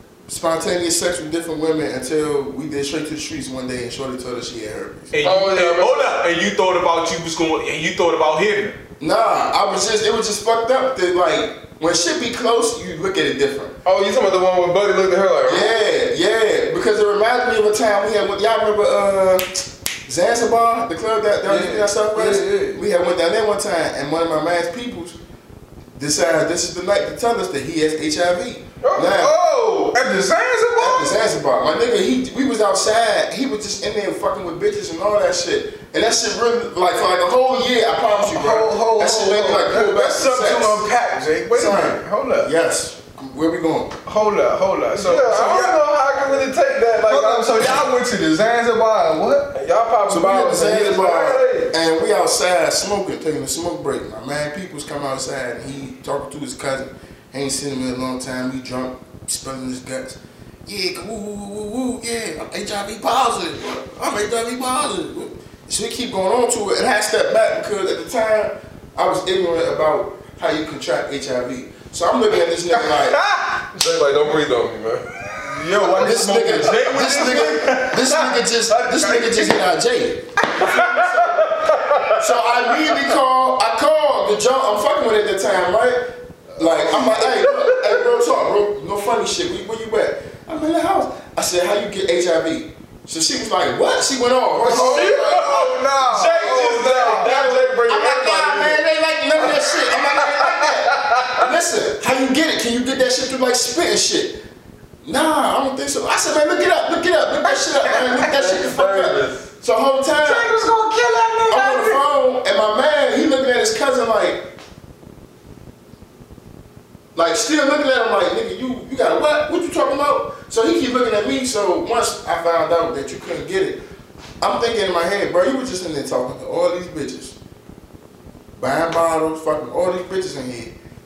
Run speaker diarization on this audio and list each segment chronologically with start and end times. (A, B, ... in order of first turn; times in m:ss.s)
0:00.3-0:05.1 A
0:05.1-0:08.8 B
0:05.2-0:06.2 C
0:09.0-0:13.7 A
0:13.8-0:15.8 C
0:15.4-0:19.5 A
0:20.0-0:25.2 A
0:21.4-0:22.8 B
0:26.0-0:29.3 A
0:28.8-0:29.1 C
0:29.1-0:31.3 B
0:30.8-0:40.8 A
0:38.1-0:42.5 B
0:41.5-0:44.0 A
0:44.0-0:45.8 B
0:44.9-0:47.8 C
0:47.0-0:49.5 B
0:49.5-0:51.7 C
0:50.1-1:13.2 A
1:12.7-1:13.6 B
1:13.7-1:17.1 C
1:15.4-1:19.6 B
1:16.0-1:20.3 A
1:20.4-1:21.6 B
1:20.6-1:22.6 C
1:22.1-1:35.7 A
1:26.6-1:27.0 B
1:27.3-1:28.0 C
1:34.6-1:38.8 C
1:34.6-1:37.4 B
1:37.0-1:44.4 A
1:39.4-1:41.5 C
1:45.0-1:50.5 A
1:47.4-1:48.3 B
1:47.9-1:49.4 C
1:50.2-1:52.0 B
1:51.5-1:54.4 A
1:57.1-2:03.8 A
2:04.4-2:07.4 A
2:08.6-2:10.7 A